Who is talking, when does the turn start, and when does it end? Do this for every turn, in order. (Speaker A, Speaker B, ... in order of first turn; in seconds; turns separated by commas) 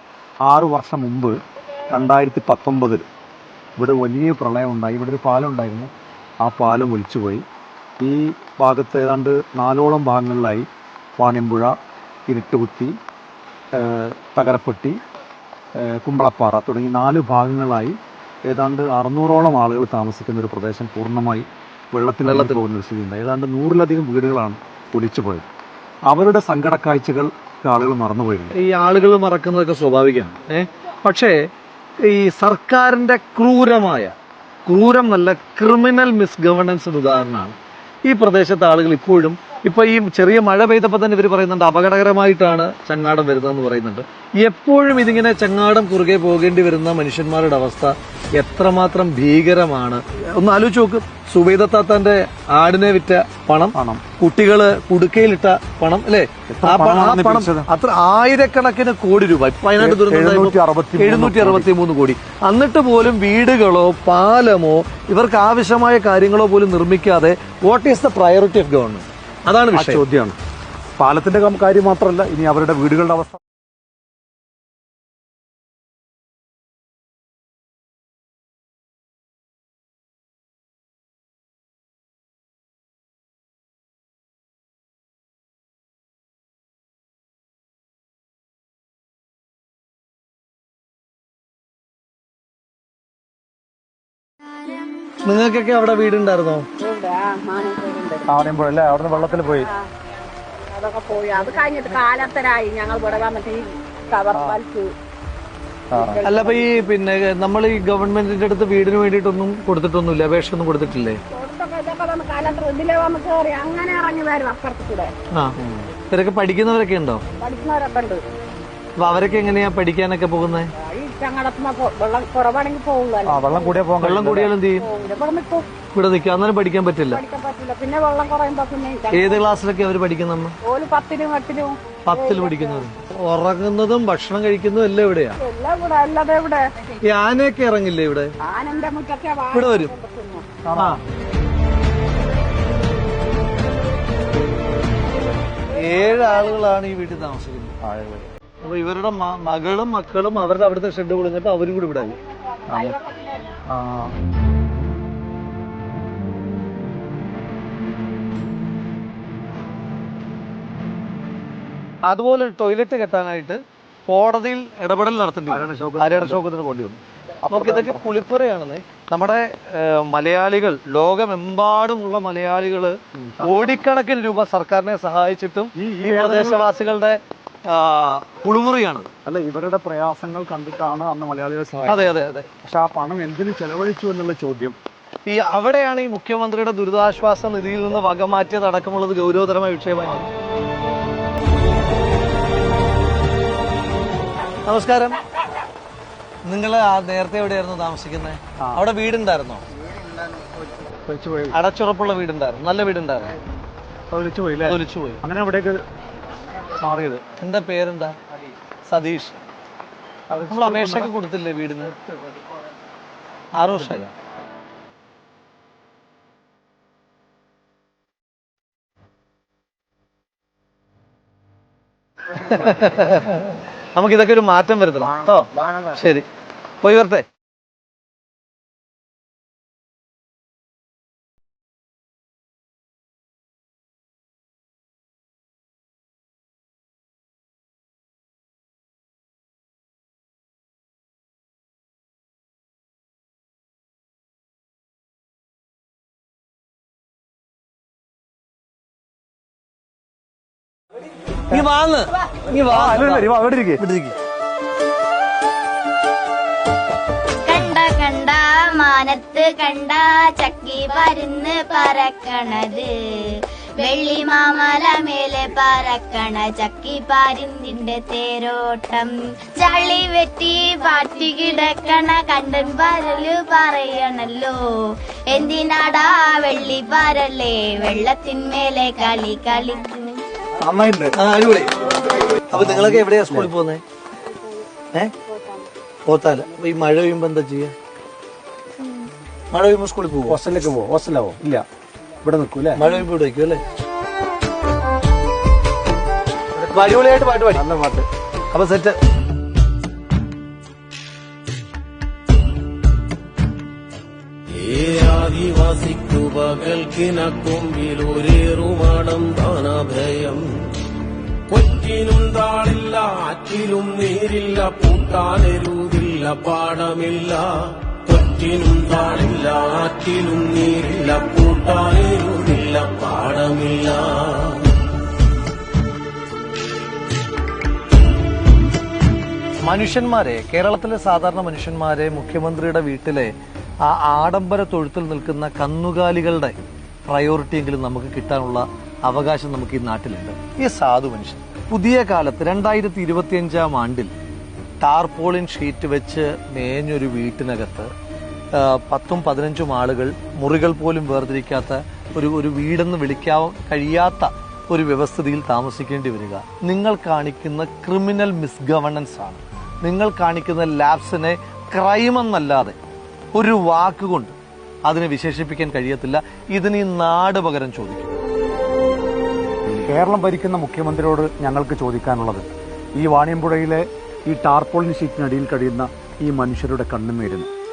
Speaker A: 0.4-1.4, Speaker A: 1.9-3.0, Speaker A: 3.8-7.4, Speaker A: 8.0-11.7, Speaker A: 12.3-12.9, Speaker A: 13.7-15.0, Speaker A: 15.8-25.5, Speaker B: 22.2-22.6, Speaker A: 26.1-28.6, Speaker B: 28.5-31.5, Speaker B: 32.0-34.1, Speaker B: 34.6-70.0, Speaker A: 53.7-54.0, Speaker A: 56.5-57.7, Speaker A: 59.8-61.7, Speaker A: 69.7-70.3, Speaker A: 71.0-73.4, Speaker B: 95.2-96.7, Speaker C: 96.8-98.3, Speaker A: 98.3-99.7, Speaker C: 100.7-104.9, Speaker A: 104.3-104.6, Speaker A: 105.9-106.2, Speaker C: 105.9-106.8, Speaker B: 106.2-111.2, Speaker C: 111.3-115.1, Speaker A: 115.6-115.9, Speaker B: 116.1-117.2, Speaker C: 117.4-118.2, Speaker B: 119.0-120.7, Speaker C: 120.8-123.8, Speaker A: 123.2-124.5, Speaker B: 124.0-124.9, Speaker C: 124.8-125.7, Speaker B: 125.9-127.2, Speaker C: 127.1-129.5, Speaker B: 129.1-130.6, Speaker C: 130.7-132.8, Speaker B: 132.0-135.4, Speaker C: 135.4-136.9, Speaker B: 137.0-138.3, Speaker C: 138.4-140.5, Speaker B: 139.5-139.9, Speaker A: 140.6-141.0, Speaker B: 140.8-141.0, Speaker B: 145.7-147.8, Speaker A: 147.8-148.3, Speaker B: 148.6-152.2, Speaker A: 152.7-152.9, Speaker A: 153.7-154.1, Speaker B: 162.0-179.1, Speaker A: 165.5-166.4, Speaker A: 167.4-168.0, Speaker A: 173.2-173.5, Speaker A: 175.7-176.6, Speaker A: 179.2-182.1, Speaker B: 181.8-182.5, Speaker A: 182.6-184.8, Speaker B: 185.2-190.3, Speaker B: 194.6-195.2, Speaker B: 196.4-199.6, Speaker A: 201.0-201.6, Speaker B: 201.5-203.3, Speaker A: 204.1-205.8, Speaker B: 204.6-205.2, Speaker A: 206.7-207.2, Speaker B: 207.3-208.2, Speaker B: 208.8-209.4, Speaker A: 210.3-211.1, Speaker B: 210.5-212.0, Speaker B: 213.5-214.1, Speaker B: 222.3-226.3, Speaker B: 226.8-227.2, Speaker B: 251.5-254.2, Speaker A: 252.7-253.8, Speaker D: 257.4-274.6, Speaker D: 275.3-280.2, Speaker A: 280.6-281.1, Speaker B: 281.1-281.7, Speaker B: 282.5-283.8, Speaker A: 282.5-283.5, Speaker C: 285.3-285.6, Speaker B: 286.1-287.7, Speaker B: 289.5-290.4, Speaker A: 290.3-291.6, Speaker A: 292.2-292.9, Speaker B: 292.8-293.6, Speaker B: 296.6-297.6, Speaker A: 297.5-298.1, Speaker B: 298.5-299.0, Speaker E: 304.5-310.7, Speaker E: 311.5-324.8, Speaker B: 329.6-333.3, Speaker B: 333.8-344.1, Speaker B: 344.8-347.9, Speaker B: 348.5-362.8, Speaker B: 363.3-368.1, Speaker A: 369.7-377.5